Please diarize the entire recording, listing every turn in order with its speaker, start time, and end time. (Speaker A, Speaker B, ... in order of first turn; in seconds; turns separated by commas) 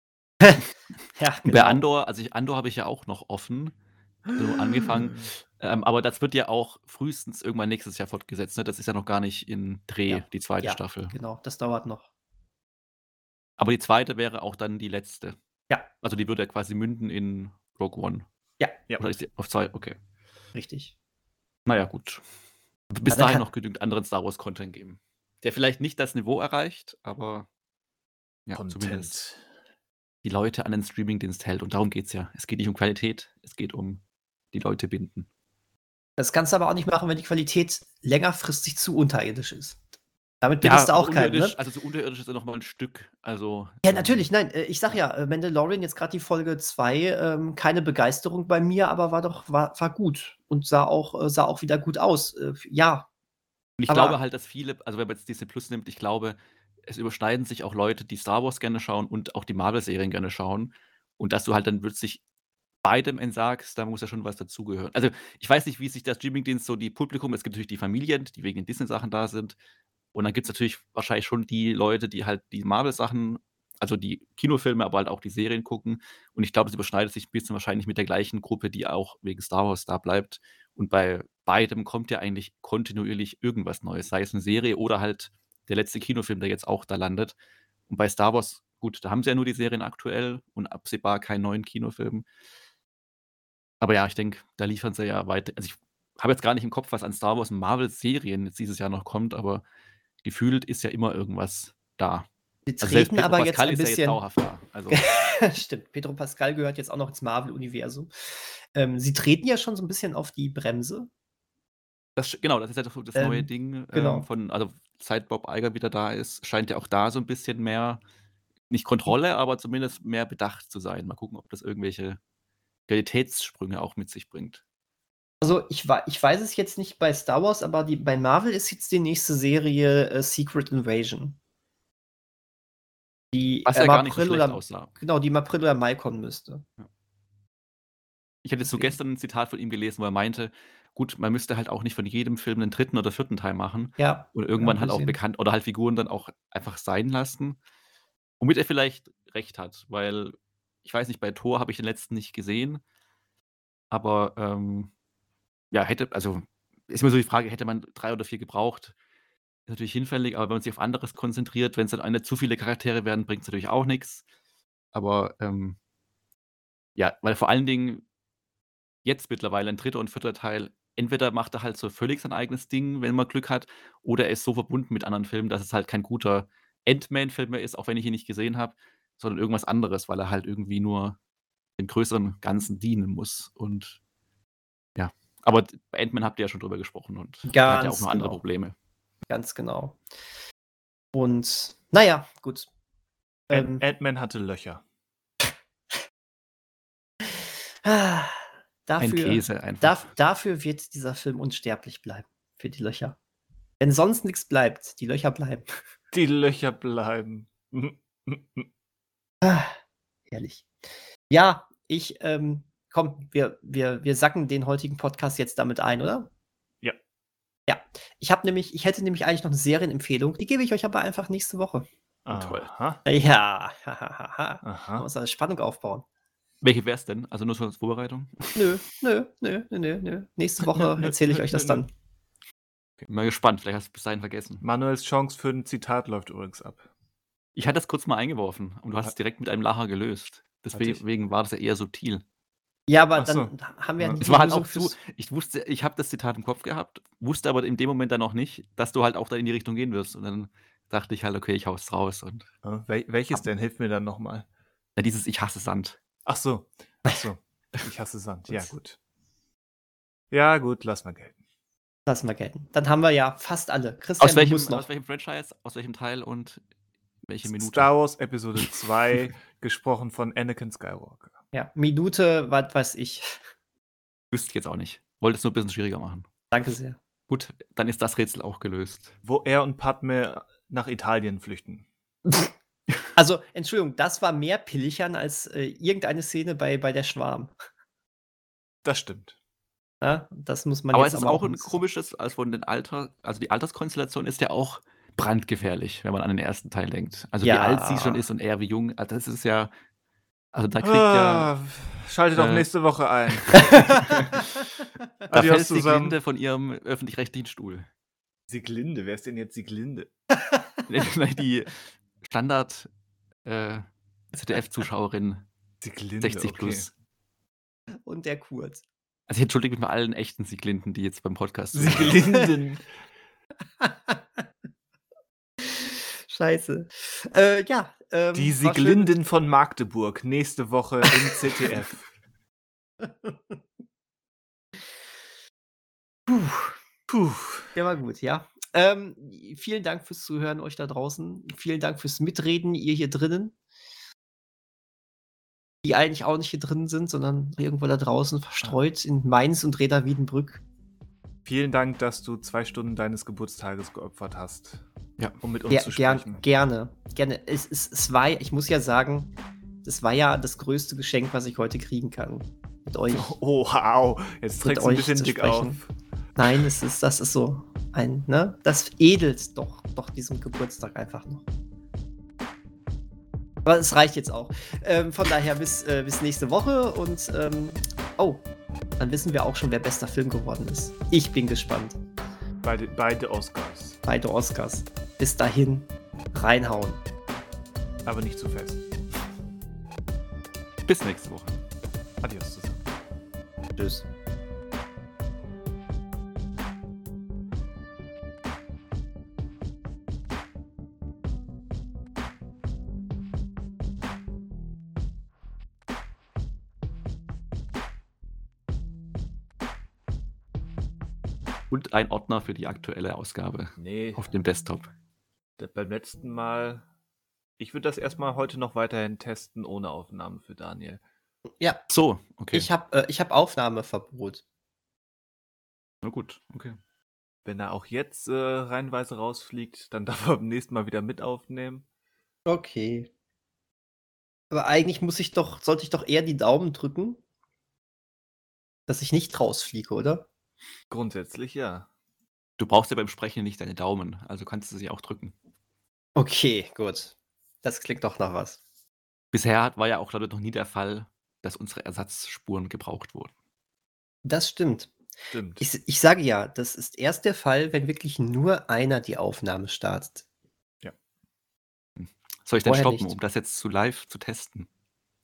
Speaker A: 0.4-1.8, Speaker B: 1.4-3.7, Speaker B: 4.3-11.1, Speaker C: 4.3-5.3, Speaker A: 10.1-12.1, Speaker B: 13.6-15.3, Speaker B: 16.0-18.2, Speaker B: 19.0-20.0, Speaker A: 20.5-20.9, Speaker B: 21.6-22.2, Speaker B: 22.9-27.5, Speaker A: 23.1-23.4, Speaker B: 28.4-29.2, Speaker C: 28.6-29.4, Speaker B: 30.2-34.0, Speaker B: 34.5-35.3, Speaker A: 36.2-39.8, Speaker A: 40.4-41.5, Speaker B: 40.6-44.3, Speaker A: 43.8-53.1, Speaker B: 53.8-62.2, Speaker A: 53.9-54.2, Speaker B: 62.8-69.6, Speaker B: 70.1-87.3, Speaker B: 87.9-92.2, Speaker B: 93.8-99.6, Speaker B: 100.2-102.3, Speaker A: 102.7-104.2, Speaker B: 102.8-105.0, Speaker A: 104.9-111.1, Speaker B: 112.2-118.0, Speaker A: 113.2-114.3, Speaker B: 118.7-122.2, Speaker B: 122.9-124.6, Speaker A: 125.4-131.4, Speaker A: 133.3-136.6, Speaker B: 133.7-134.9, Speaker B: 138.4-147.6, Speaker A: 138.7-138.9, Speaker A: 144.0-145.2, Speaker B: 148.4-152.8, Speaker B: 153.9-154.9, Speaker B: 155.7-158.9, Speaker B: 159.7-164.2, Speaker B: 164.9-165.8, Speaker B: 167.0-168.0, Speaker B: 169.0-181.2, Speaker B: 181.8-184.0, Speaker B: 184.9-188.7, Speaker A: 187.5-188.4, Speaker A: 189.3-190.0, Speaker A: 191.1-192.7, Speaker A: 193.5-193.8, Speaker C: 193.5-194.8, Speaker A: 197.8-203.2, Speaker B: 199.0-200.1, Speaker A: 203.8-205.7, Speaker C: 206.1-208.7, Speaker A: 209.4-209.8, Speaker A: 210.3-210.7, Speaker A: 211.3-216.3, Speaker A: 217.7-221.9, Speaker C: 222.2-223.0, Speaker B: 222.3-222.7, Speaker A: 223.1-226.0, Speaker C: 224.6-225.1, Speaker B: 226.6-228.6, Speaker A: 228.5-231.9, Speaker C: 230.7-231.8, Speaker B: 233.1-234.6, Speaker C: 234.6-236.8, Speaker B: 237.6-242.2, Speaker C: 240.7-241.0, Speaker A: 242.9-244.9, Speaker C: 243.2-244.2, Speaker B: 244.2-252.5, Speaker C: 252.6-254.4, Speaker B: 254.9-256.0, Speaker C: 256.2-259.0, Speaker C: 260.3-261.4, Speaker A: 262.1-264.9, Speaker B: 264.2-266.6, Speaker B: 267.2-267.9, Speaker C: 267.4-271.3, Speaker A: 271.5-273.3, Speaker B: 274.3-276.2, Speaker A: 276.5-277.0, Speaker B: 277.3-279.1, Speaker C: 279.2-281.9, Speaker A: 283.1-287.5, Speaker C: 288.8-289.3, Speaker A: 290.0-291.8, Speaker B: 290.9-299.7, Speaker A: 297.4-298.3, Speaker B: 300.5-301.5, Speaker C: 300.8-304.4, Speaker B: 302.3-302.7, Speaker B: 303.5-304.4, Speaker C: 305.3-306.2, Speaker B: 305.3-307.9, Speaker C: 308.5-310.1, Speaker A: 310.4-310.7, Speaker B: 310.9-312.9, Speaker B: 313.4-315.4, Speaker C: 315.8-316.9, Speaker B: 316.2-316.9, Speaker A: 318.0-318.8, Speaker B: 319.3-322.2, Speaker C: 321.7-322.8, Speaker A: 323.8-324.2, Speaker A: 325.6-329.1, Speaker C: 328.3-332.1, Speaker A: 331.1-331.3, Speaker A: 333.0-333.5, Speaker A: 336.3-336.8, Speaker C: 337.1-337.7, Speaker A: 337.7-343.5, Speaker A: 345.8-350.6, Speaker C: 351.4-354.8, Speaker C: 355.4-356.4, Speaker A: 355.7-359.3, Speaker A: 359.8-363.4, Speaker C: 363.1-365.9, Speaker A: 364.6-365.8, Speaker A: 366.4-371.4, Speaker A: 373.6-378.4, Speaker A: 379.0-382.0, Speaker C: 382.6-384.0, Speaker A: 384.0-387.0, Speaker C: 388.1-388.8, Speaker B: 390.9-391.6, Speaker C: 392.2-392.8, Speaker A: 393.8-394.1, Speaker B: 411.7-414.9, Speaker C: 413.8-414.3, Speaker C: 415.6-416.8, Speaker C: 417.6-421.0, Speaker B: 421.9-422.7, Speaker A: 422.5-424.4, Speaker B: 426.0-426.8, Speaker C: 427.4-431.8, Speaker A: 432.4-433.1, Speaker A: 434.5-437.2, Speaker A: 438.9-440.2, Speaker C: 440.9-441.9, Speaker B: 442.6-445.3, Speaker A: 446.2-448.6, Speaker B: 449.3-453.3, Speaker A: 454.2-454.9, Speaker C: 455.3-455.6, Speaker A: 455.6-460.2, Speaker B: 462.0-464.7, Speaker A: 462.6-463.1